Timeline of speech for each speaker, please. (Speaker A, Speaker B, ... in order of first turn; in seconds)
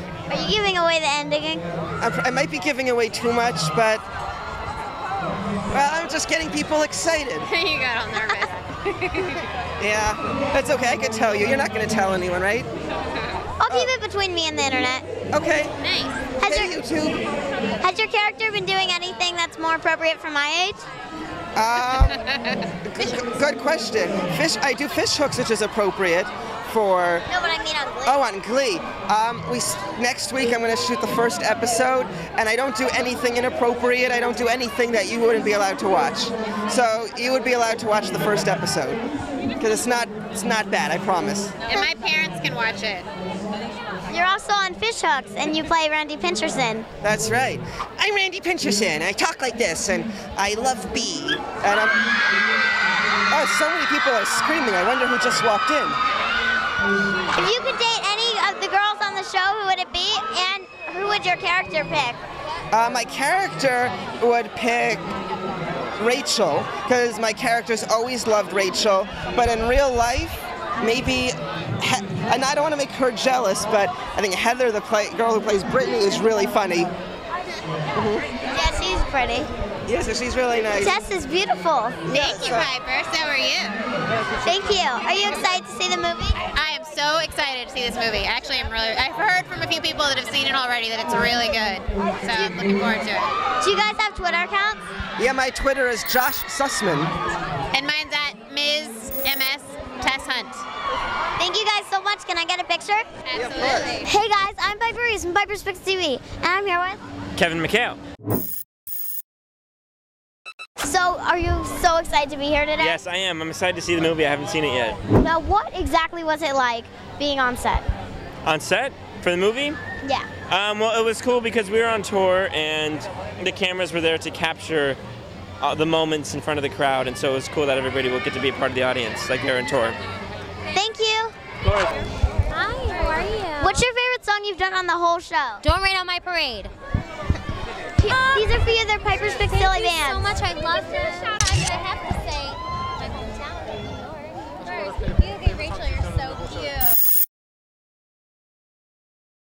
Speaker A: 0.3-1.7, 13.6-15.1, 16.4-16.7, 17.8-20.9, 27.3-28.3, 44.1-46.9, 57.3-62.2, 78.5-79.5, 80.8-82.0, 84.4-86.4, 93.6-94.8, 101.4-103.0, 104.0-107.0, 110.8-113.0, 115.2-117.9, 130.7-131.3, 133.6-135.6, 138.0-140.3
Speaker B: 2.0-4.0, 5.7-7.5, 9.8-12.7, 13.7-13.9, 15.3-15.8, 16.4-17.2, 21.5-22.2, 22.8-27.3, 28.0-39.0, 39.6-41.5, 47.0-52.0, 53.3-56.0, 62.7-65.1, 66.0-76.9, 77.9-78.2, 79.9-81.0, 82.0-82.7, 95.2-97.1, 103.3-104.0
Speaker C: 7.4-9.4, 15.8-16.3, 41.6-43.1, 82.1-83.8, 86.5-93.3, 97.7-100.6, 103.3-104.1
Speaker D: 107.3-108.0, 112.8-115.0, 118.4-119.8, 120.5-125.0, 125.6-130.0
Speaker E: 132.5-133.8, 135.6-136.7, 138.1-138.6, 139.4-142.6, 143.6-143.9, 144.4-146.8